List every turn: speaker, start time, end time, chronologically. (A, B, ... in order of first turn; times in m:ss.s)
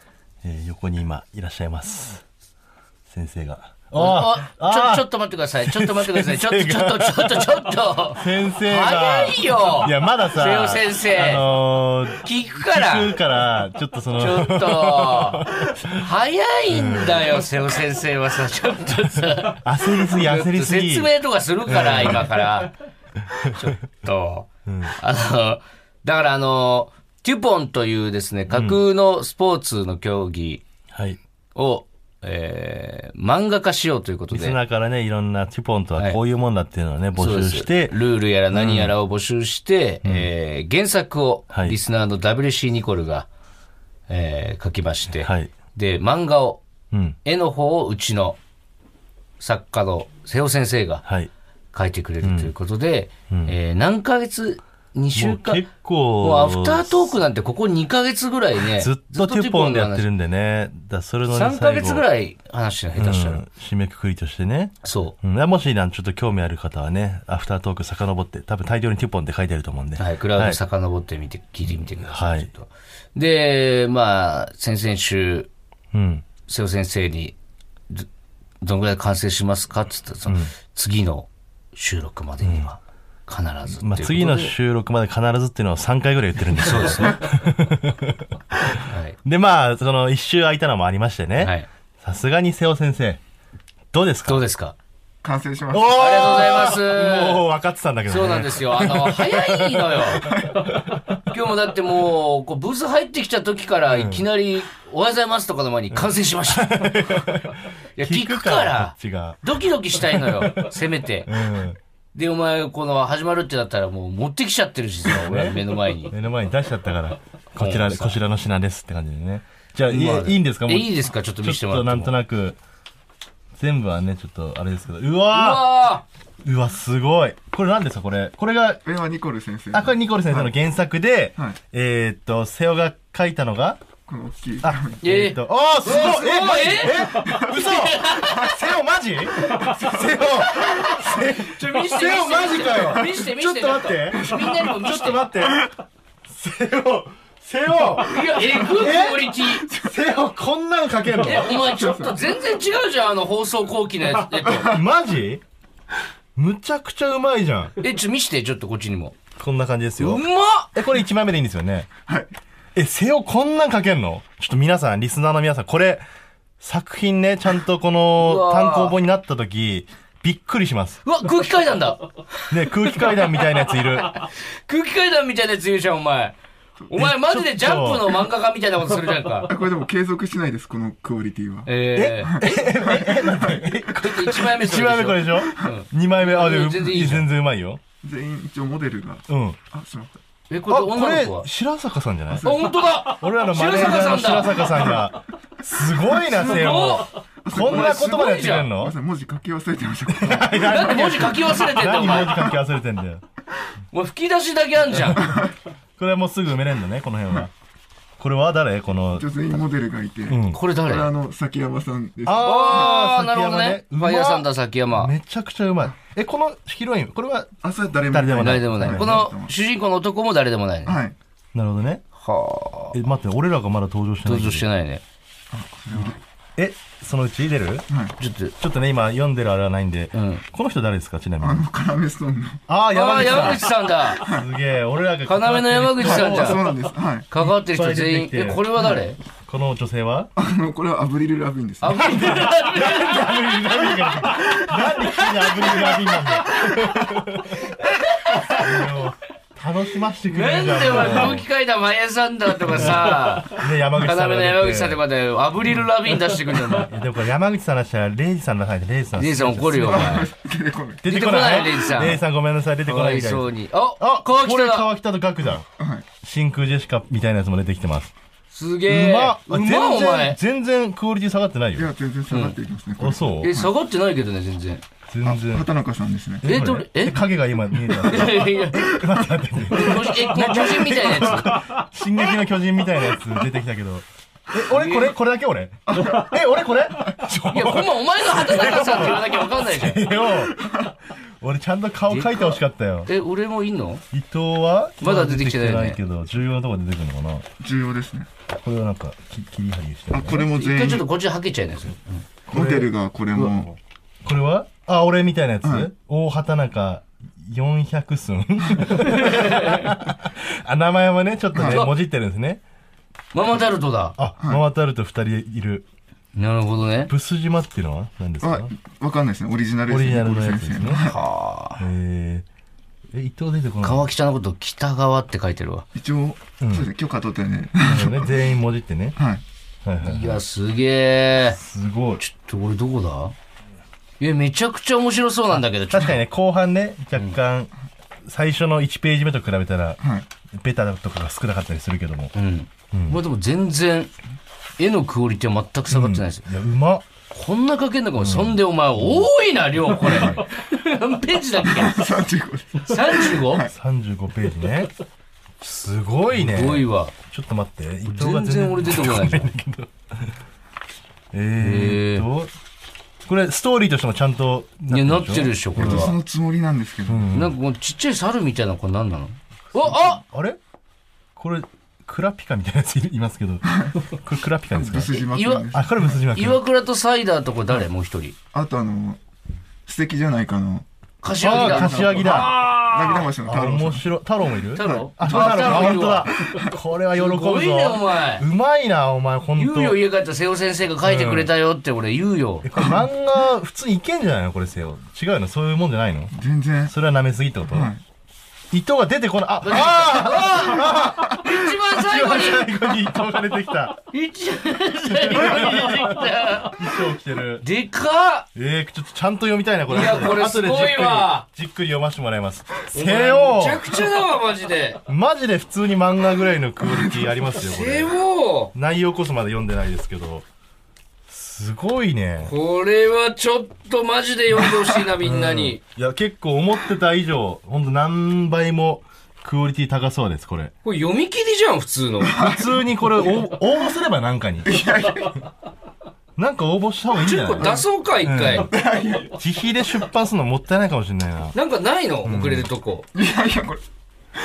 0:00.4-0:02.2 A
0:03.1-0:05.1 A
0:04.0-0:11.4 B
0:05.6-0:07.5 A
0:08.2-0:16.1 A
0:12.2-0:13.1 B
0:14.2-0:22.8 B
0:16.7-0:17.4 A
0:19.6-0:21.1 A
0:21.7-0:22.4 A
0:23.2-0:23.7 A
0:23.5-0:30.6 B
0:24.7-0:25.0 A
0:28.5-0:28.8 A
0:30.9-0:31.2 A
0:31.6-0:34.6 B
0:34.3-0:38.0 A
0:37.2-0:43.3 B
0:38.5-0:39.0 A
0:40.0-0:40.3 A
0:44.1-0:46.6 B
0:45.2-0:45.5 A
0:46.9-0:47.2 A
0:47.2-0:48.4 B
0:49.4-0:51.0 B
0:51.0-0:51.3 A
0:51.7-0:55.6 B
0:52.2-0:52.5 A
0:55.2-0:57.2 A
0:56.2-1:00.0 B
0:58.8-1:02.0 A
1:01.3-1:03.4 B
1:03.0-1:10.6 A
1:04.8-1:05.2 B
1:10.0-1:15.5 B
1:11.6-1:12.5 A
1:15.9-1:16.3 A
1:16.5-1:17.4 B
1:18.6-1:24.5 B
1:20.3-1:20.5 A
1:22.4-1:22.7 A
1:23.8-1:33.2 A
1:26.6-1:27.2 B
1:28.9-1:29.2 B
1:31.4-1:31.7 B
1:33.9-1:34.4 A
1:34.3-1:34.8 B
1:35.2-1:36.1 C
1:35.7-1:40.8 A
1:35.9-1:37.4 B
1:38.1-1:40.5 B
1:41.2-1:46.8 B
1:43.9-1:44.3 A
1:45.9-1:50.7 A
1:48.0-1:51.4 B
1:51.3-1:51.8 A
1:52.2-1:56.1 B
1:55.1-2:02.6 A
1:57.6-1:58.2 B
1:59.9-2:02.1 B
2:03.6-2:05.8 A
2:05.3-2:06.0 B
2:06.4-2:08.8 A
2:08.8-2:10.5 C
2:09.7-2:13.8 A
2:14.1-2:15.0 C
2:14.6-2:25.7 A
2:15.0-2:18.4 B
2:15.9-2:16.5 C
2:17.2-2:18.3 C
2:19.6-2:20.0 C
2:20.5-2:25.2 B
2:20.7-2:21.0 C
2:22.8-2:23.0 C
2:24.2-2:24.8 C
2:26.3-2:31.6 A
2:28.0-2:29.7 B
2:29.6-2:30.0 C
2:31.2-2:34.8 B
2:31.5-2:32.4 C
2:34.5-2:35.4 A
2:36.4-2:37.8 A
2:37.8-2:39.2 B
2:39.4-2:41.9 A
2:40.0-2:40.7 B
2:42.8-2:46.0 A
2:46.6-2:51.0 A
2:48.2-2:49.0 B
2:51.0-2:53.2 B
2:52.5-2:54.3 A
2:53.8-2:56.4 B
2:56.9-2:59.5 B
2:56.9-2:58.2 A
2:59.4-3:01.7 C
3:01.7-3:02.8 B
3:02.0-3:07.8 A
3:02.2-3:04.0 C
3:04.0-3:07.3 B
3:08.0-3:10.2 C
3:09.3-3:09.6 A
3:10.5-3:11.5 B
3:10.7-3:19.0 A
3:12.3-3:12.7 C
3:12.4-3:14.9 B
3:16.2-3:17.1 B
3:17.4-3:21.2 C
3:17.7-3:18.7 B
3:20.1-3:23.2 A
3:20.6-3:22.5 B
3:23.9-3:25.3 B
3:24.9-3:25.3 A
3:25.2-3:25.5 C
3:26.0-3:27.5 A
3:28.2-3:29.2 A
3:29.2-3:33.0 C
3:30.3-3:30.6 A
3:30.5-3:31.1 B
3:32.2-3:37.6 A
3:32.4-3:35.1 B
3:37.6-3:39.6 C
3:38.1-3:39.2 A
3:38.4-3:41.0 B
3:40.8-3:41.2 C
3:41.5-3:42.0 A
3:42.2-3:43.0 B
3:42.9-3:44.7 A
3:44.2-3:45.0 B
3:45.5-3:46.2 C
3:46.6-3:47.9 A
3:47.9-3:48.2 C
3:48.2-3:48.5 B
3:48.6-3:51.7 A
3:50.1-3:50.4 B
3:51.4-3:52.6 C
3:52.7-3:53.6 A
3:52.9-3:54.2 B
3:54.2-3:56.7 A
3:55.3-3:56.7 B
3:56.0-3:57.3 C
3:57.3-3:59.2 B
3:57.4-3:58.8 A
3:59.5-4:00.3 A
4:00.4-4:02.2 C
4:01.8-4:04.7 B
4:01.9-4:07.7 A
4:05.5-4:05.9 B
4:06.6-4:06.9 B
4:07.5-4:08.8 B
4:08.4-4:11.5 A
4:10.3-4:16.9 B
4:12.7-4:15.0 A
4:16.7-4:20.3 A
4:19.2-4:20.3 B
4:19.8-4:21.0 C
4:21.0-4:25.7 A
4:21.1-4:22.2 B
4:22.8-4:24.9 B
4:25.8-4:26.1 C
4:26.2-4:28.1 A
4:28.5-4:30.4 B
4:28.9-4:31.9 A
4:31.8-4:33.7 C
4:32.3-4:32.6 B
4:33.0-4:33.5 A
4:33.4-4:34.8 B
4:35.1-4:35.7 A
4:35.2-4:36.5 C
4:36.4-4:50.6 A
4:36.4-4:37.2 B
4:37.8-4:39.0 B
4:39.7-4:41.6 B
4:44.7-4:45.1 B
4:45.9-4:46.4 C
4:47.5-4:50.1 B
4:50.3-4:51.0 C
4:51.4-4:53.1 A
4:52.1-4:54.0 B
4:54.1-4:57.4 A
4:55.0-4:56.0 B
4:57.6-4:58.3 C
4:58.5-5:00.5 A
5:00.1-5:01.1 C
5:00.5-5:02.3 B
5:02.5-5:03.6 A
5:02.5-5:03.8 C
5:04.2-5:12.6 A
5:05.6-5:05.9 C
5:09.0-5:09.9 B
5:11.6-5:11.9 C
5:13.3-5:14.2 B
5:14.2-5:15.9 A
5:16.4-5:17.1 B
5:17.1-5:18.7 A
5:18.4-5:21.2 C
5:19.9-5:21.1 A
5:21.0-5:21.8 B
5:21.8-5:22.4 A
5:23.1-5:24.1 A
5:23.8-5:25.8 B
5:26.0-5:28.4 C
5:26.6-5:26.9 A
5:27.8-5:29.2 A
5:29.2-5:29.4 C
5:29.8-5:30.4 A
5:30.0-5:31.6 B
5:31.5-5:32.2 A
5:32.2-5:33.3 B
5:34.2-5:36.2 B
5:35.5-5:37.7 A
5:38.2-5:40.0 A
5:40.0-5:40.3 C
5:40.5-5:42.3 A
5:42.3-5:44.1 B
5:42.9-5:43.2 A
5:44.8-5:46.5 B
5:45.9-5:47.1 A
5:47.3-5:52.0 B
5:48.2-5:49.3 A
5:50.0-5:50.3 C
5:51.6-5:53.7 C
5:52.8-5:53.7 B
5:53.7-5:54.9 A
5:55.6-6:00.3 A
5:56.3-5:57.1 B
5:58.1-5:59.5 B
6:01.3-6:02.5 A
6:01.6-6:02.3 B
6:03.3-6:06.1 A
6:04.9-6:06.2 B
6:05.8-6:07.3 C
6:07.1-6:07.5 A
6:07.3-6:10.2 B
6:09.7-6:10.6 A
6:11.4-6:15.2 A
6:13.7-6:14.0 C
6:14.7-6:15.9 C
6:15.3-6:18.4 B
6:15.7-6:16.6 A
6:18.5-6:19.2 C
6:19.9-6:20.9 C
6:21.2-6:23.3 B
6:21.4-6:22.6 A
6:21.4-6:24.1 C
6:23.4-6:30.0 A
6:24.8-6:26.4 B
6:24.8-6:26.7 C
6:27.1-6:28.4 B
6:29.6-6:32.7 B
6:31.0-6:31.5 A
6:32.6-6:36.3 A
6:36.3-6:36.9 C
6:36.9-6:37.9 A
6:37.7-6:38.0 C
6:38.7-6:44.1 A
6:39.6-6:42.7 B
6:44.1-6:46.8 B
6:45.0-6:47.7 A
6:47.6-6:48.5 B
6:48.6-6:54.1 A
6:49.9-6:51.4 B
6:52.9-6:55.0 B
6:55.1-6:58.1 A
6:57.6-6:58.7 B
6:58.8-7:00.4 A
7:01.3-7:02.5 A
7:02.4-7:05.8 B
7:05.2-7:10.7 A
7:10.8-7:12.4 B
7:12.2-7:13.4 C
7:12.4-7:14.8 A
7:14.6-7:15.4 C
7:16.4-7:18.7 A
7:17.2-7:17.9 C
7:17.5-7:18.7 B
7:18.5-7:19.4 C
7:19.3-7:21.6 A
7:21.5-7:23.1 B
7:22.2-7:22.7 A
7:23.1-7:23.8 C